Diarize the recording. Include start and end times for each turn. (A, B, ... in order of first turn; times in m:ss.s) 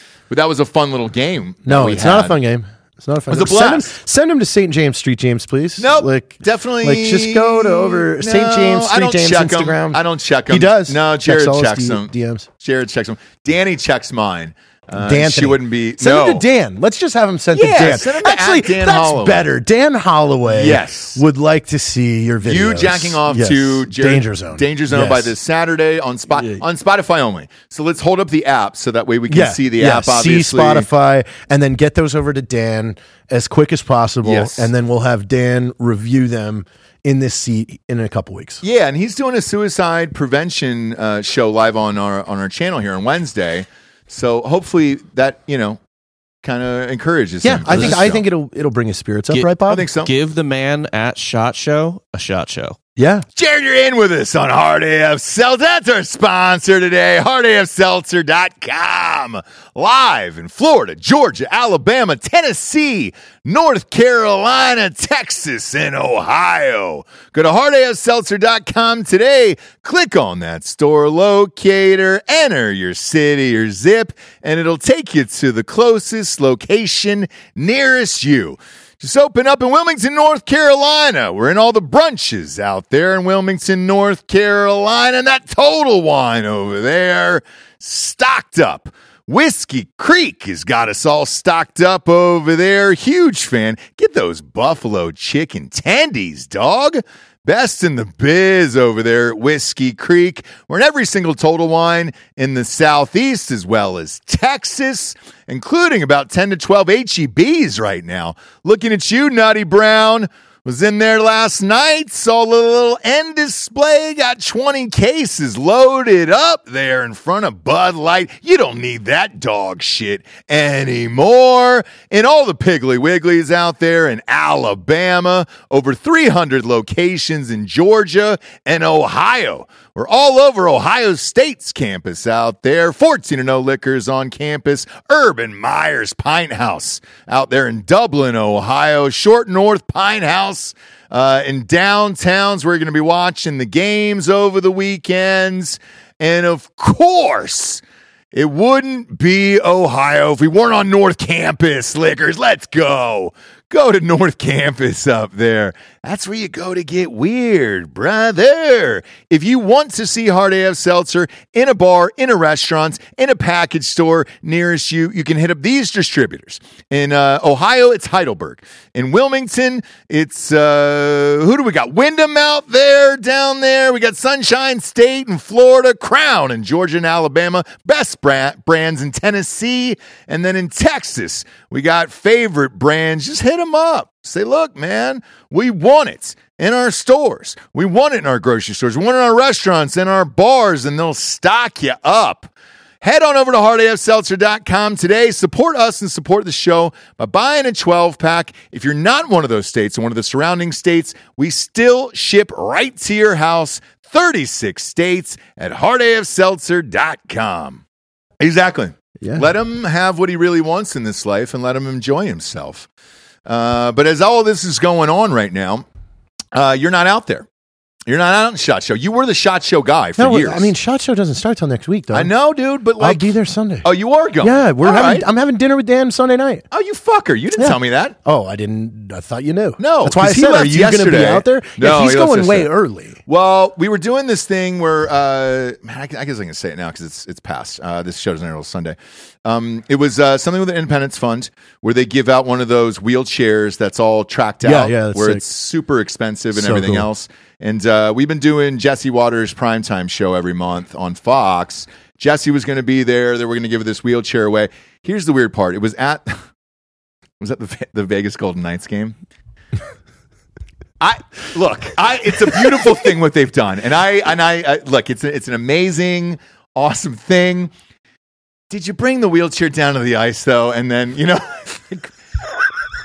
0:00.3-0:02.4 A
0:01.6-0:12.5 B
0:03.3-0:03.9 A
0:05.8-0:16.4 A
0:15.0-0:25.3 B
0:17.5-0:19.5 A
0:20.5-0:21.2 A
0:22.4-0:30.9 A
0:26.3-0:26.6 B
0:29.3-0:38.6 B
0:34.2-0:34.7 A
0:38.6-0:45.8 A
0:46.4-0:48.2 A
0:47.4-0:49.8 B
0:47.7-0:48.0 C
0:49.3-0:52.8 C
0:49.6-0:50.1 A
0:53.0-0:53.2 B
0:53.4-2:27.8 A
2:28.3-3:12.5 A
3:13.0-3:27.8 A
3:28.4-3:32.9 A
3:29.2-3:29.5 B
3:33.4-3:35.8 A
3:36.5-3:37.5 A
3:38.1-3:40.7 A
3:40.2-3:42.3 B
3:42.1-3:45.2 A
3:43.0-3:43.9 B
3:44.4-3:46.6 B
3:46.7-3:48.2 A
3:47.6-3:53.2 B
3:49.8-3:52.7 A
3:53.2-4:16.4 A
4:04.6-4:05.4 B
4:06.5-4:07.1 B
4:17.4-4:19.2 A
4:21.0-4:27.7 A
4:28.7-4:32.1 A